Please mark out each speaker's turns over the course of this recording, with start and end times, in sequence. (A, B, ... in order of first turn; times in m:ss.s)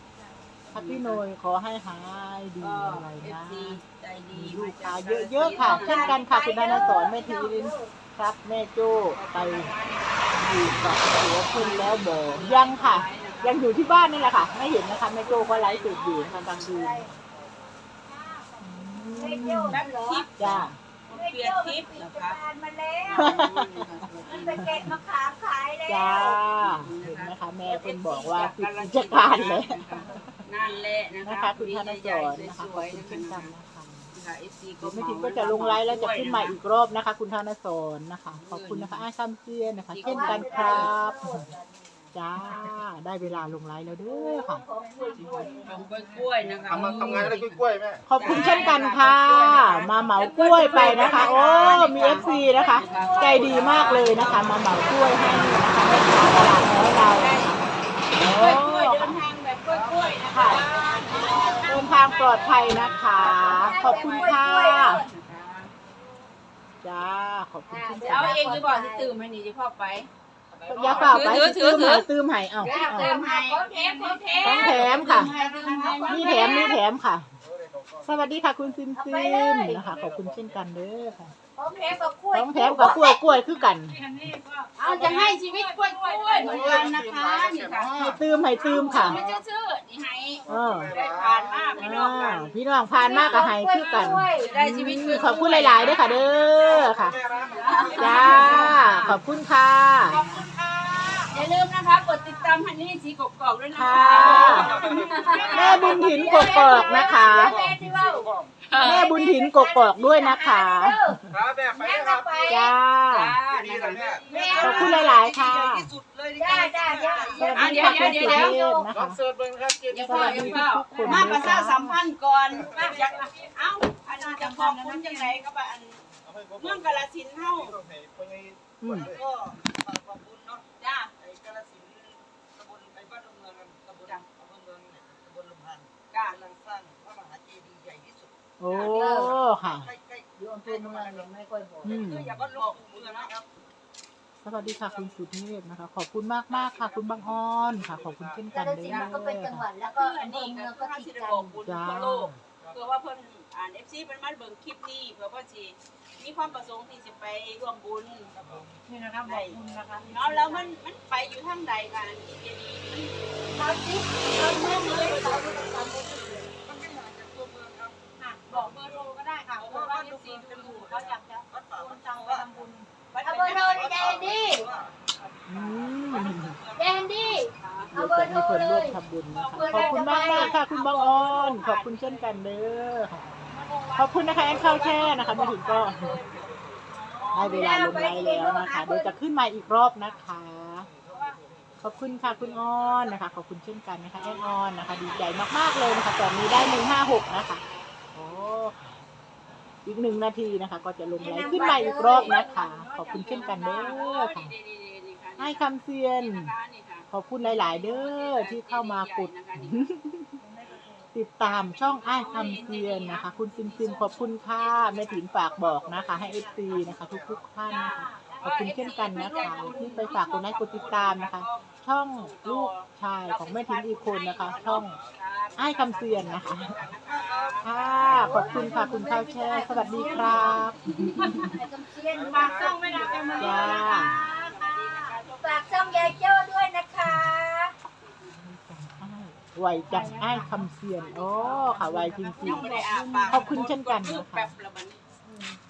0:00.2-0:00.5 A
0:00.7-0:01.2 B
0:00.7-0:03.8 C
0:02.6-0:06.2 B
0:04.3-0:09.7 C
0:05.5-0:07.9 D
0:09.0-0:10.1 B
0:09.5-0:11.0 A
0:10.4-0:17.2 C
0:11.4-0:16.9 B
0:16.7-0:17.1 D
0:18.2-0:18.4 A
0:18.3-0:20.3 D
0:18.6-0:19.8 C
0:19.7-0:22.4 B
0:20.4-0:20.8 C
0:21.1-0:23.4 D
0:23.0-0:25.0 B
0:23.1-0:23.8 C
0:24.3-0:26.5 D
0:24.5-0:25.0 C
0:25.9-0:30.4 C
0:26.5-0:33.5 B
0:31.2-0:34.1 C
0:34.1-0:36.6 B
0:34.8-0:41.4 C
0:38.3-0:39.1 B
0:39.9-0:41.0 B
0:40.0-0:42.2 D
0:42.1-0:44.6 C
0:42.4-0:42.8 A
0:44.1-0:45.8 D
0:44.7-0:47.3 A
0:45.1-0:47.6 B
0:46.7-0:48.0 E
0:47.0-0:47.3 F
0:48.1-0:59.3 C
0:48.2-0:54.8 B
0:49.1-0:50.7 F
0:50.5-0:51.4 A
0:51.0-0:56.9 D
0:53.8-0:54.8 F
0:56.2-0:57.6 B
0:58.2-1:05.7 B
0:59.7-1:01.7 F
1:00.3-1:00.7 C
1:01.1-1:01.6 D
1:01.6-1:02.9 A
1:01.6-1:05.0 C
1:03.3-1:05.1 D
1:06.8-1:08.7 C
1:07.7-1:09.2 D
1:08.0-1:10.1 B
1:10.5-1:11.2 F
1:10.7-1:13.2 C
1:10.8-1:12.1 B
1:12.6-1:16.8 B
1:12.6-1:16.8 D
1:13.8-1:16.5 A
1:14.4-1:15.3 C
1:16.0-1:17.3 C
1:17.5-1:18.1 E
1:18.0-1:21.3 C
1:18.9-1:20.0 D
1:19.9-1:20.7 E
1:21.6-1:23.4 D
1:22.3-1:24.0 C
1:23.4-1:27.0 A
1:24.8-1:32.5 B
1:24.8-1:25.2 C
1:26.5-1:27.8 E
1:27.7-1:28.2 F
1:28.1-1:29.2 C
1:28.4-1:28.9 A
1:29.1-1:29.4 F
1:30.5-1:31.4 E
1:30.5-1:31.0 C
1:30.8-1:31.8 F
1:31.8-1:37.2 C
1:33.0-1:34.5 D
1:33.1-1:33.5 B
1:34.3-1:36.3 B
1:34.4-1:35.6 A
1:36.6-1:36.9 F
1:36.9-1:37.7 E
1:37.4-1:39.2 A
1:37.5-1:39.2 B
1:37.7-1:38.4 F
1:38.0-1:40.4 C
1:38.1-1:38.6 D
1:40.0-1:41.4 A
1:41.3-1:46.7 B
1:42.1-1:42.5 D
1:43.7-1:44.8 C
1:43.9-1:44.7 D
1:44.1-1:46.2 F
1:44.9-1:46.0 E
1:45.4-1:52.7 D
1:45.5-1:47.8 C
1:47.0-1:47.8 F
1:47.4-1:48.4 E
1:48.7-1:49.1 B
1:48.8-1:51.2 C
1:51.3-1:52.4 E
1:52.5-1:53.4 C
1:53.1-1:55.1 B
1:53.5-1:58.1 F
1:54.3-1:55.2 D
1:54.6-1:55.9 C
1:56.4-1:58.9 D
1:57.3-1:59.2 C
1:57.5-1:58.6 B
1:58.9-2:00.5 E
1:59.9-2:07.8 B
2:00.0-2:02.0 C
2:00.9-2:01.5 A
2:02.6-2:03.4 A
2:02.6-2:03.0 F
2:04.1-2:05.4 A
2:06.5-2:07.8 F
2:07.8-2:08.8 E
2:08.8-2:09.1 C
2:08.8-2:10.6 F
2:10.8-2:11.1 B
2:11.2-2:18.3 F
2:16.1-2:16.4 B
2:18.6-2:19.9 C
2:18.7-2:19.4 D
2:19.6-2:21.3 F
2:20.4-2:22.0 D
2:21.8-2:23.5 F
2:21.8-2:22.4 C
2:22.4-2:23.3 B
2:24.4-2:29.7 C
2:24.5-2:25.3 F
2:26.5-2:28.4 F
2:28.5-2:31.6 D
2:28.8-2:29.2 B
2:29.8-2:38.4 B
2:31.6-2:32.4 C
2:32.5-2:32.8 F
2:38.3-2:38.8 F
2:38.9-2:40.7 A
2:39.2-2:43.3 B
2:43.6-2:46.5 D
2:44.4-2:45.5 B
2:44.7-2:45.8 F
2:46.6-2:49.1 F
2:48.2-2:52.9 A
2:49.6-2:51.0 B
2:49.6-2:52.7 F
2:53.1-2:58.0 B
2:53.2-2:54.7 D
2:53.4-2:54.9 F
2:55.5-2:56.6 C
2:55.7-2:57.0 F
2:56.8-2:59.0 D
2:57.9-3:03.4 C
2:59.3-3:02.4 B
2:59.5-3:00.6 D
3:03.5-3:07.7 B
3:04.0-3:06.2 C
3:06.9-3:07.9 A
3:07.3-3:10.9 C
3:07.4-3:09.2 D
3:10.9-3:13.0 F
3:11.1-3:11.4 B
3:11.8-3:17.6 C
3:14.2-3:18.5 B
3:18.1-3:19.0 C
3:19.8-3:24.5 C
3:21.2-3:22.6 D
3:21.5-3:22.4 B
3:21.7-3:24.1 A
3:23.1-3:29.9 B
3:25.4-3:26.5 C
3:27.1-3:30.4 C
3:30.4-3:34.4 A
3:31.1-3:45.0 C
3:32.0-3:35.3 B
3:35.4-3:37.4 E
3:36.0-3:36.8 A
3:37.6-3:40.3 A
3:37.7-3:48.9 B
3:44.4-3:45.0 F
3:45.6-3:46.8 C
3:46.4-3:48.4 F
3:47.6-3:51.6 C
3:48.0-3:50.7 D
3:49.8-3:50.4 A
3:50.0-3:51.5 B
3:51.3-3:57.7 D
3:52.1-3:52.7 E
3:52.3-3:54.1 A
3:52.3-3:56.2 B
3:53.4-3:54.2 C
3:57.0-3:57.3 C
3:58.3-4:04.5 C
3:59.9-4:03.7 A
4:02.4-4:05.0 B
4:05.3-4:05.6 D